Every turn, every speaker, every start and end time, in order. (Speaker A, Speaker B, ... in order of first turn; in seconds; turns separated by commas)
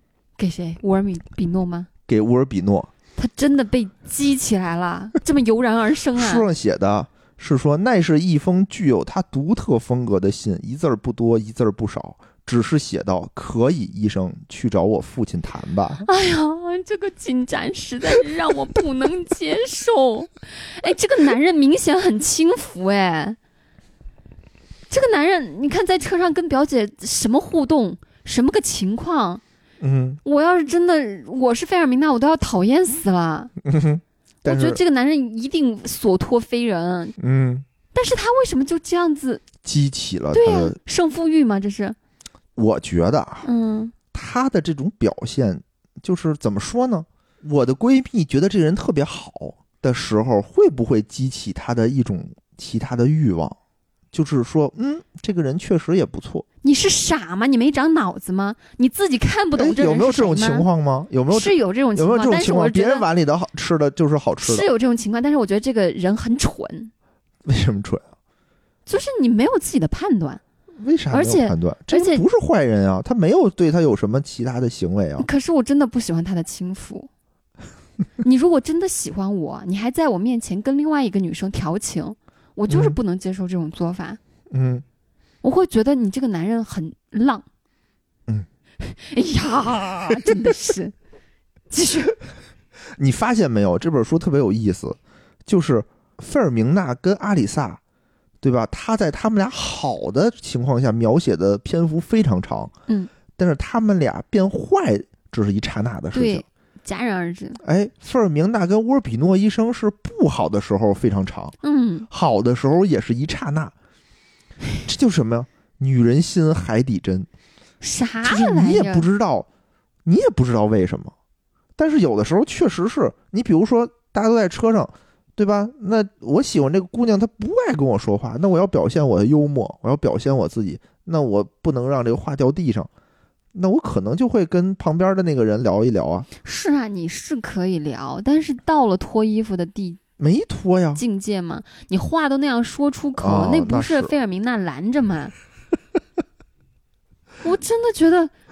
Speaker A: 0.4-1.9, Speaker B: 2.1-2.9, Speaker A: 3.1-6.5, Speaker B: 6.2-16.1, Speaker A: 16.1-23.4, Speaker A: 24.9-29.4, Speaker B: 29.8-30.2, Speaker A: 30.2-33.5, Speaker B: 33.6-34.8, Speaker A: 34.4-37.1, Speaker B: 37.2-37.6, Speaker A: 37.9-39.4, Speaker B: 39.6-40.8, Speaker A: 40.3-42.0, Speaker B: 42.5-43.5, Speaker A: 43.4-43.9, Speaker B: 44.1-53.6, Speaker B: 54.1-56.4, Speaker A: 56.6-60.7, Speaker B: 59.5-64.7, Speaker A: 61.3-63.0, Speaker A: 64.4-66.9, Speaker B: 67.5-68.1, Speaker A: 68.9-70.4, Speaker B: 70.8-75.3, Speaker A: 71.1-72.2, Speaker A: 75.2-77.1, Speaker A: 78.2-84.2, Speaker B: 82.7-83.0, Speaker B: 84.5-84.8, Speaker A: 85.4-87.4, Speaker A: 88.8-90.9, Speaker A: 91.7-92.2, Speaker B: 93.0-97.8, Speaker B: 98.4-102.7, Speaker B: 103.4-106.4, Speaker A: 106.1-107.6, Speaker B: 107.6-111.5, Speaker A: 111.6-112.1, Speaker B: 112.1-113.7, Speaker B: 114.8-117.3, Speaker A: 117.8-119.0, Speaker B: 118.2-119.5, Speaker B: 120.0-121.1, Speaker B: 121.8-132.9, Speaker B: 133.5-136.3, Speaker A: 136.4-140.0, Speaker B: 140.2-141.0, Speaker A: 140.9-145.3, Speaker B: 143.2-144.1, Speaker A: 147.4-148.3